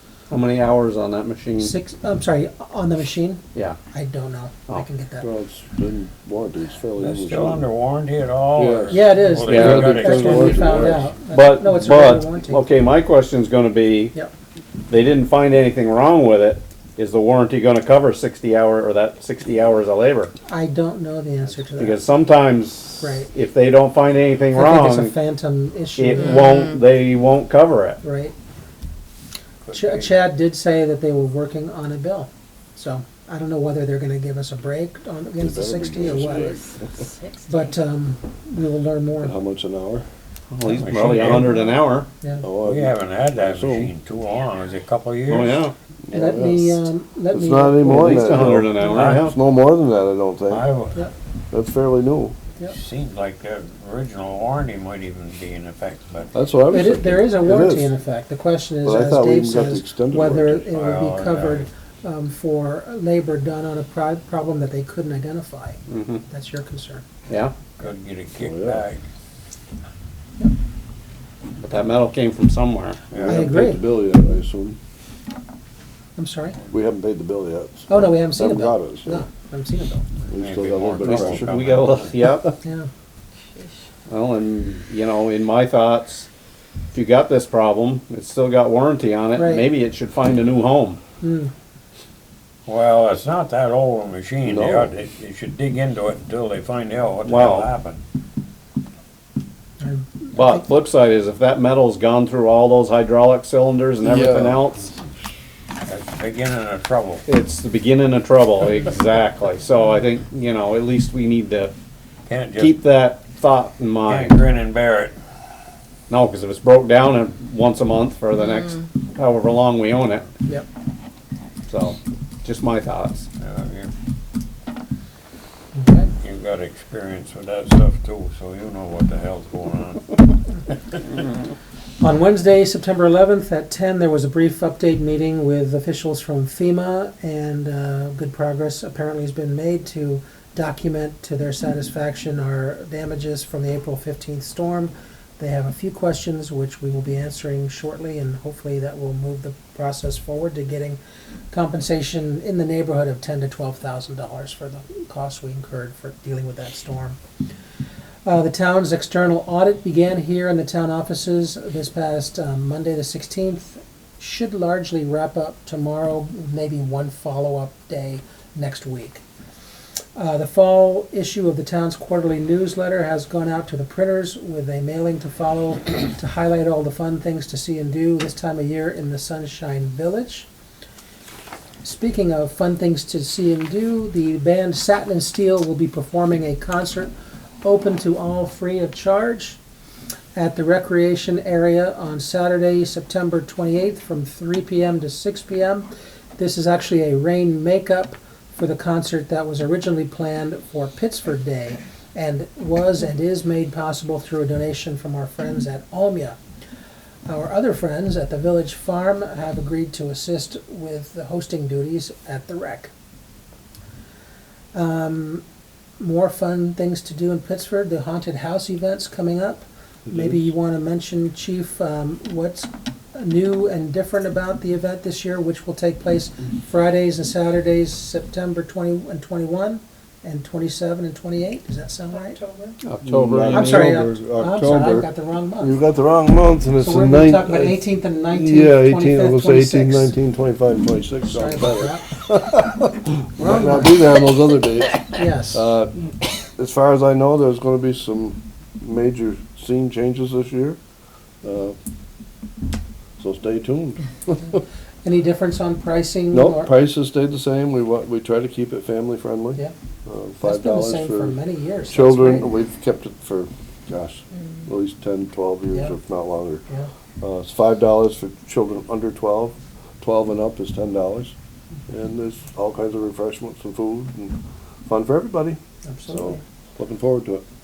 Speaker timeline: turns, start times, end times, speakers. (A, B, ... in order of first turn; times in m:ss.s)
0:00.3-0:01.7 A
0:01.6-0:05.3 B
0:05.2-0:07.7 C
0:07.0-0:11.0 D
0:08.6-0:11.1 C
0:08.9-0:12.7 B
0:09.5-0:10.5 A
0:11.3-0:14.1 A
0:14.9-0:20.3 A
0:20.5-0:22.0 B
0:21.8-0:25.1 A
0:23.0-0:23.3 B
0:24.5-0:26.6 B
0:26.0-0:28.0 A
0:28.0-0:28.3 B
0:29.6-0:30.1 D
0:29.7-0:36.6 B
0:35.4-0:37.0 C
0:37.5-0:39.4 B
0:39.2-0:40.1 C
0:40.5-0:42.1 A
0:40.6-0:41.6 D
0:42.4-0:43.9 C
0:42.6-0:45.6 D
0:45.3-0:45.8 A
0:46.0-0:50.7 C
0:46.1-0:48.8 B
0:47.8-0:49.4 A
0:48.8-0:49.2 D
0:50.5-0:51.0 D
0:51.5-0:52.4 C
0:52.7-0:56.3 D
0:56.3-0:57.9 C
0:56.7-1:07.1 B
0:58.8-1:00.7 C
1:00.7-1:01.7 D
1:05.9-1:06.2 A
1:07.3-1:07.5 A
1:07.8-1:09.0 D
1:08.4-1:08.8 C
1:11.6-1:13.0 A
1:13.1-1:13.4 D
1:13.1-1:14.8 C
1:13.2-1:13.8 B
1:16.2-1:16.6 B
1:16.7-1:19.2 C
1:17.9-1:20.1 B
1:20.3-1:21.6 C
1:20.3-1:22.2 D
1:21.0-1:22.5 A
1:22.6-1:22.9 B
1:24.1-1:26.3 A
1:26.9-1:31.0 A
1:29.4-1:29.7 B
1:31.2-1:31.5 B
1:32.7-1:38.0 D
1:34.4-1:34.9 C
1:37.2-1:37.7 A
1:39.8-1:40.6 B
1:40.3-1:44.9 A
1:44.0-1:44.6 C
1:45.8-1:47.2 D
1:47.3-1:51.7 A
1:52.3-1:52.8 D
1:52.6-1:54.4 A
1:54.1-1:55.1 D
1:56.1-2:00.3 A
2:01.7-2:03.3 A
2:03.4-2:03.9 D
2:05.8-2:06.1 B
2:06.2-2:11.2 D
2:12.0-2:31.0 B
2:31.5-2:37.2 B
2:38.2-2:49.2 B
2:50.2-3:00.5 B
3:01.8-3:07.1 B
3:07.6-3:09.6 B
3:10.3-3:26.4 B
3:27.3-3:32.9 B
3:34.7-3:35.4 B
3:36.0-3:52.4 B
3:40.1-3:40.4 C
3:52.8-3:54.0 A
3:53.0-3:55.1 C
3:53.5-3:55.8 B
3:55.6-4:10.8 C
3:56.8-4:00.1 B
4:01.2-4:02.1 B
4:03.4-4:04.2 B
4:05.1-4:05.7 B
4:11.4-4:11.8 C
4:13.2-4:14.6 C
4:15.0-4:16.7 B
4:16.3-4:21.4 C
4:20.4-4:22.5 B
4:21.9-4:26.6 C
4:27.2-4:31.4 C
4:31.9-4:34.4 C
4:34.9-4:37.4 C
4:35.8-4:36.4 B